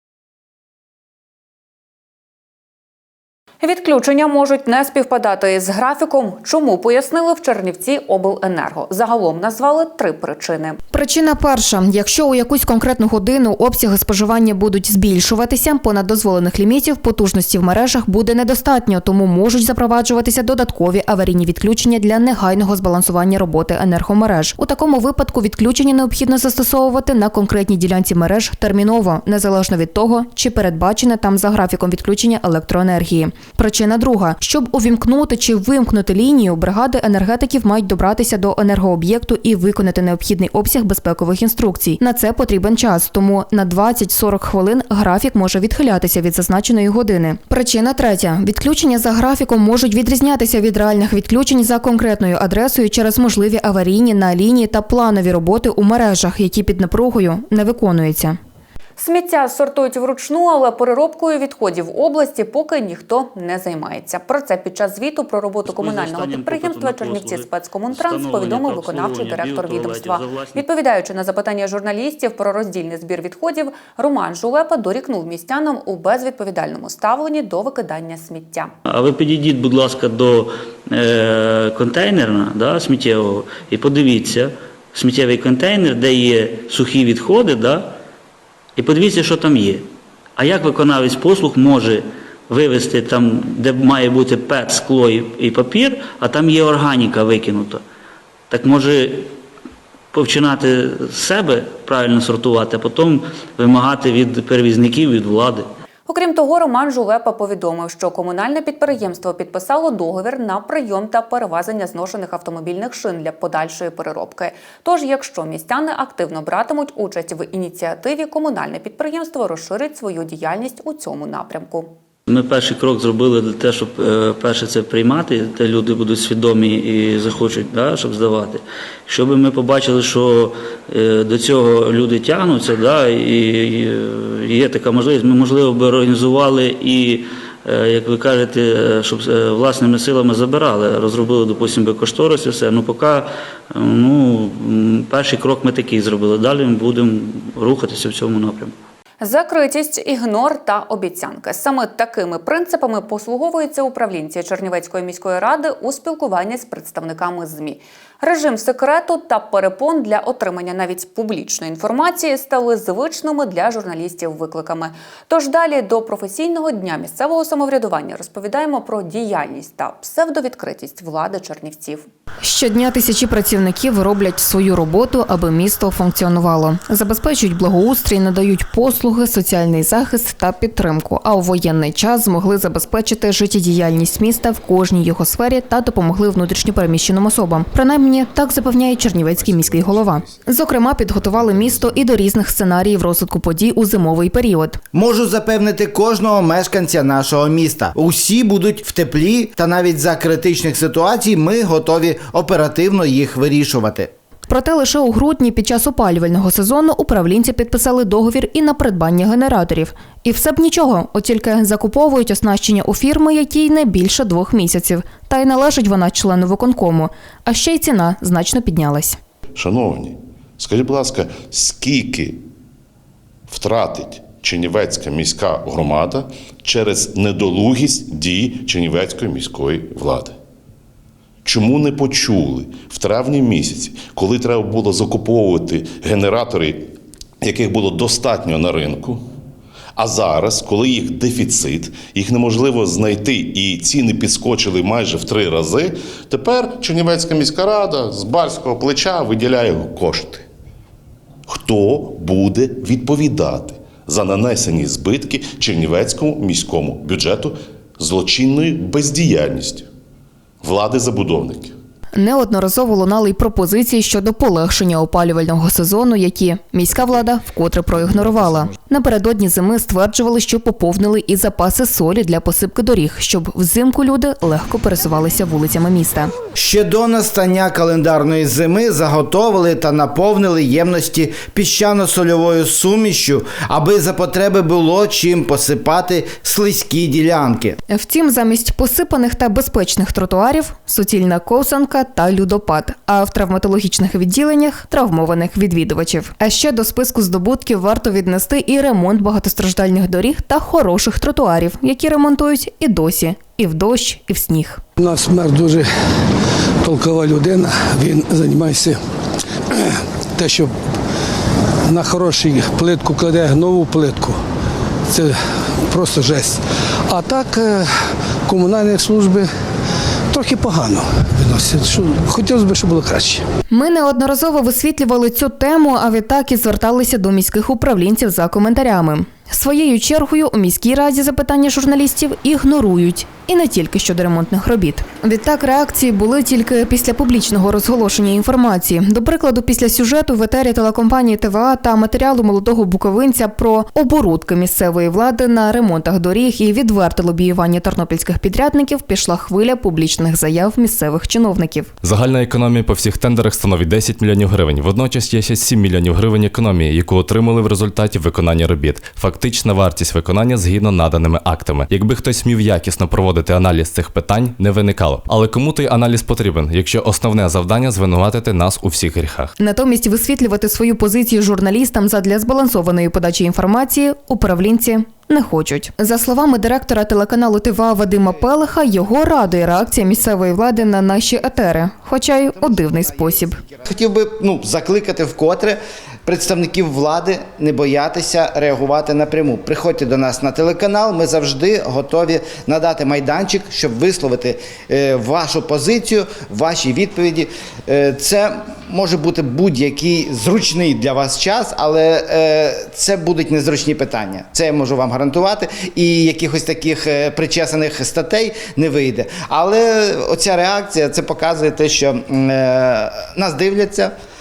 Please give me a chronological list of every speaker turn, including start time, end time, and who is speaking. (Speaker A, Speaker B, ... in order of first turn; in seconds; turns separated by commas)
Speaker A: 3.6-10.8, Speaker B: 10.9-58.4, Speaker A: 59.0-78.7, Speaker C: 65.7-70.7, Speaker C: 78.9-88.0, Speaker C: 88.8-89.9, Speaker C: 90.4-97.8, Speaker C: 98.5-99.3, Speaker C: 100.1-105.7, Speaker A: 106.1-121.9, Speaker C: 122.3-148.8, Speaker A: 149.2-172.0, Speaker B: 172.4-194.8, Speaker D: 194.9-204.1, Speaker B: 204.5-219.2, Speaker E: 219.6-222.5, Speaker E: 223.5-230.4, Speaker E: 231.4-239.2, Speaker E: 240.0-250.5, Speaker E: 251.5-259.9, Speaker E: 260.6-261.8, Speaker B: 262.1-276.3, Speaker D: 276.6-287.8, Speaker B: 287.9-304.8, Speaker F: 305.0-305.9, Speaker F: 306.8-309.0, Speaker F: 310.4-310.7, Speaker F: 311.9-314.4, Speaker F: 315.1-317.9, Speaker F: 318.4-319.5, Speaker F: 320.3-323.4, Speaker B: 323.7-351.9, Speaker G: 352.0-369.5, Speaker B: 369.6-383.6, Speaker D: 382.6-414.1